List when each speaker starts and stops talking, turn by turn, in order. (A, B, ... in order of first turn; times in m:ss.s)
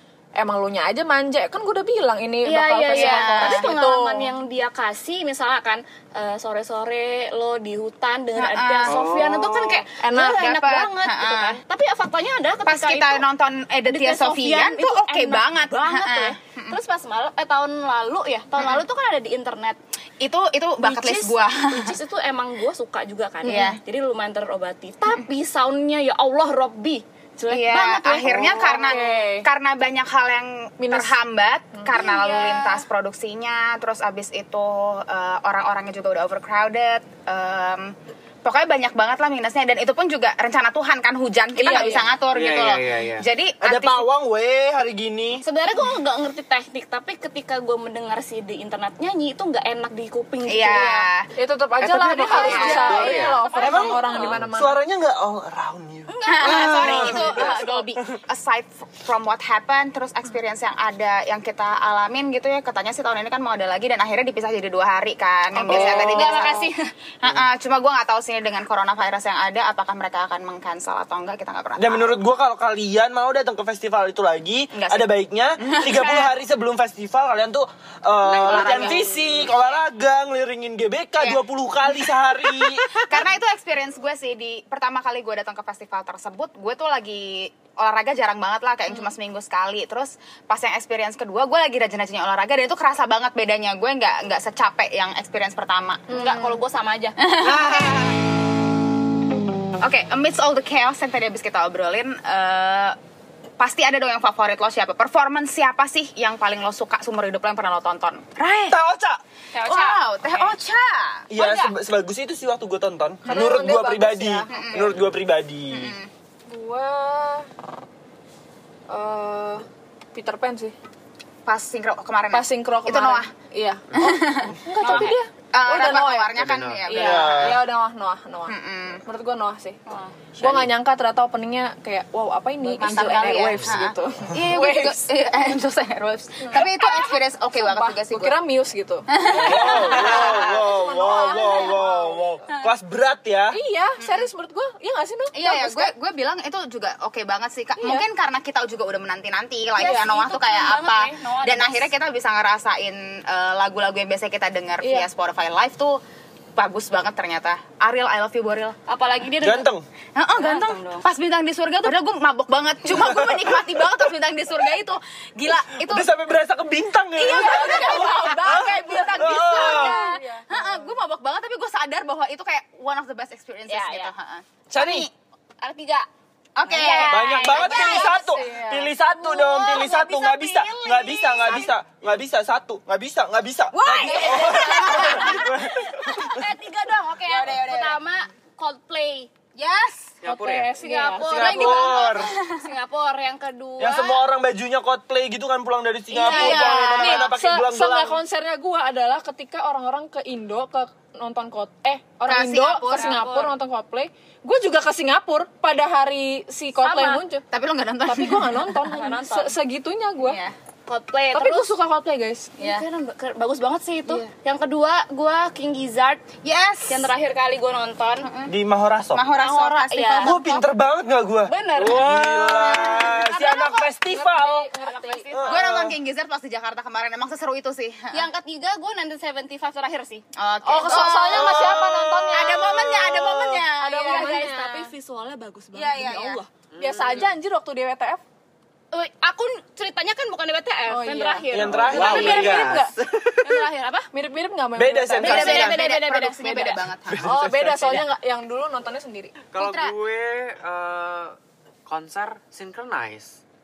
0:00.4-0:04.3 A
0:02.4-0:13.2 B
0:02.9-0:03.7 C
0:08.4-0:09.3 C
0:08.8-0:09.8 D
0:10.0-0:10.4 A
0:10.0-0:11.6 C
0:12.6-0:16.8 C
0:13.9-0:19.8 B
0:18.6-0:18.8 C
0:20.2-0:22.0 C
0:20.8-0:29.1 B
0:23.4-0:23.8 A
0:23.4-0:23.8 C
0:27.5-0:44.0 C
0:28.5-0:29.5 A
0:30.8-0:31.2 A
0:31.9-0:32.8 B
0:41.6-0:42.1 A
0:42.3-0:43.2 D
0:43.6-0:45.4 E
0:45.4-0:51.1 B
0:50.4-0:51.3 C
0:51.4-0:54.8 A
0:51.8-0:53.2 C
0:52.1-0:54.4 B
0:52.7-0:53.4 D
0:53.6-0:57.5 E
0:56.1-0:57.8 B
0:56.2-1:06.7 C
1:05.6-1:06.9 B
1:05.6-1:06.3 E
1:07.2-1:12.1 C
1:11.8-1:23.2 E
1:14.7-1:16.3 C
1:18.2-1:19.6 B
1:18.3-1:19.2 C
1:22.5-1:36.2 C
1:36.1-1:36.6 A
1:36.1-1:37.3 B
1:37.2-1:38.1 C
1:37.6-1:37.9 D
1:39.8-1:43.0 C
1:43.6-1:48.8 C
1:48.7-1:49.2 E
1:49.5-1:50.6 B
1:49.6-1:51.3 C
1:51.3-1:56.0 E
1:51.3-1:51.7 B
1:53.2-1:54.6 A
1:54.5-1:54.9 C
1:55.7-1:56.1 C
1:56.5-1:57.5 A
1:58.9-2:00.7 A
2:01.4-2:03.3 C
2:02.3-2:09.8 A
2:04.0-2:04.5 C
2:04.8-2:05.2 B
2:05.5-2:07.5 C
2:06.3-2:06.9 D
2:06.9-2:07.6 E
2:08.5-2:09.0 C
2:09.9-2:10.2 B
2:10.4-2:15.0 A
2:10.4-2:10.7 D
2:12.7-2:18.4 C
2:12.8-2:13.4 B
2:16.4-2:22.3 A
2:19.1-2:20.5 C
2:19.4-2:23.6 E
2:23.5-2:25.9 A
2:24.0-2:24.2 C
2:25.3-2:36.0 C
2:27.8-2:28.0 A
2:29.8-2:31.9 B
2:34.8-2:35.1 A
2:36.6-2:38.8 C
2:38.8-2:39.7 B
2:39.4-2:39.8 E
2:40.2-2:46.1 C
2:40.4-2:41.0 B
2:42.8-2:43.8 E
2:45.8-2:50.0 E
2:47.2-2:55.1 C
2:47.2-2:50.7 B
2:49.6-2:50.5 A
2:53.7-2:54.1 B
2:54.7-2:55.1 E
2:55.6-2:56.1 B
2:56.6-2:58.2 C
2:56.6-2:58.4 B
2:56.7-2:58.9 A
2:57.0-3:06.4 E
2:59.0-3:01.7 B
3:03.7-3:05.5 C
3:04.0-3:09.5 B
3:07.2-3:08.0 C
3:09.5-3:10.1 C
3:10.2-3:10.8 D
3:10.2-3:11.8 A
3:10.8-3:14.2 B
3:11.3-3:12.3 E
3:11.9-3:12.6 C
3:13.8-3:18.2 E
3:16.1-3:17.2 B
3:16.2-3:17.2 C
3:16.3-3:27.4 A
3:22.2-3:23.2 C
3:22.9-3:23.5 B
3:26.8-3:27.2 B
3:27.5-3:28.7 C
3:28.0-3:30.4 A
3:28.8-3:29.5 B
3:30.2-3:30.5 C
3:30.9-3:31.7 B
3:31.3-3:32.5 A
3:32.6-3:38.3 B
3:32.6-3:32.8 C
3:36.4-3:37.1 C
3:38.2-3:38.5 C
3:38.4-3:39.3 E
3:39.1-3:40.4 C
3:39.3-3:40.6 B
3:40.2-3:44.7 E
3:41.4-3:42.0 B
3:41.8-3:42.8 D
3:42.6-3:43.2 C
3:43.0-3:45.4 A
3:44.8-3:45.9 B
3:45.3-3:46.0 E
3:45.4-3:48.3 C
3:48.1-3:50.2 B
3:50.4-3:51.8 C
3:50.6-3:52.7 A
3:50.9-3:53.6 E
3:52.3-3:54.4 C
3:53.4-3:56.4 B
3:53.8-3:54.9 A
3:55.7-3:56.4 C
3:56.7-3:57.3 D
3:56.8-3:58.2 A
3:58.9-4:02.7 B
4:00.9-4:02.9 A
4:01.5-4:02.8 E
4:01.7-4:03.5 D
4:03.4-4:04.1 B
4:04.1-4:05.6 A
4:04.8-4:05.8 E
4:05.2-4:06.9 B
4:05.2-4:07.3 C
4:07.0-4:08.1 E
4:07.2-4:09.4 A
4:09.5-4:13.4 D
4:09.6-4:09.9 C